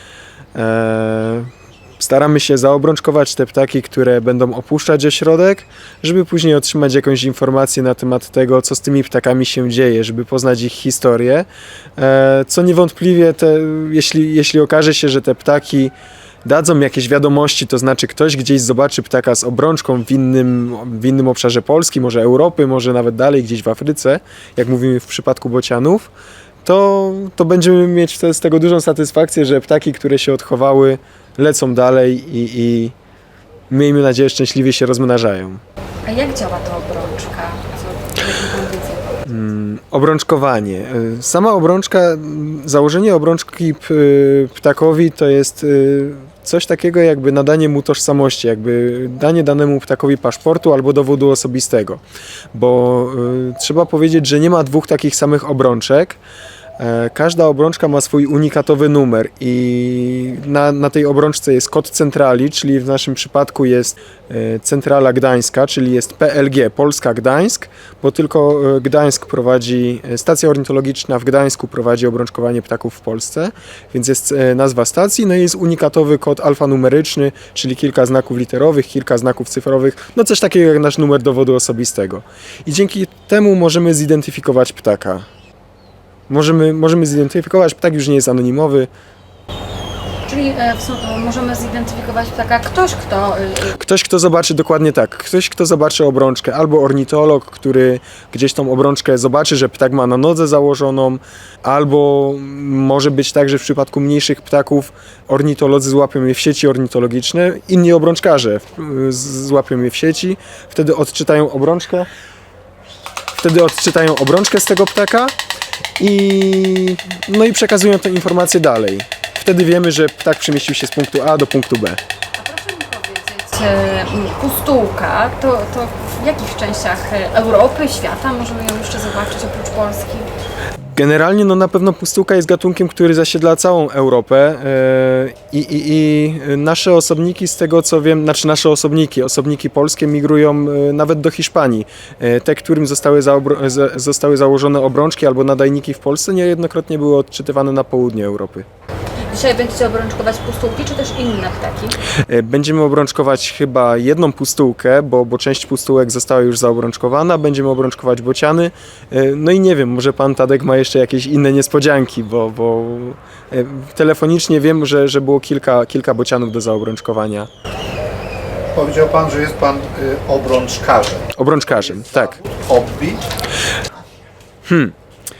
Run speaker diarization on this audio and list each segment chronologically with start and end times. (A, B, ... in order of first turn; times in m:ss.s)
0:00.5-0:15.9 A
0:16.4-0:26.1 A
0:26.6-0:32.9 A
0:33.7-0:35.6 A
0:36.0-0:39.3 B
0:39.2-0:52.0 A
0:52.5-0:56.2 A
0:56.8-1:25.3 A
1:26.3-1:28.9 A
1:30.2-1:33.8 B
1:33.6-1:52.1 A
1:53.4-1:55.3 A
1:56.0-2:02.0 A
2:02.4-2:10.3 B
2:10.8-2:28.6 A
2:29.2-2:32.0 B
2:32.2-2:47.5 A
2:48.7-2:51.3 C
2:51.4-2:52.4 A
2:51.9-2:53.2 C
2:54.6-2:54.9 A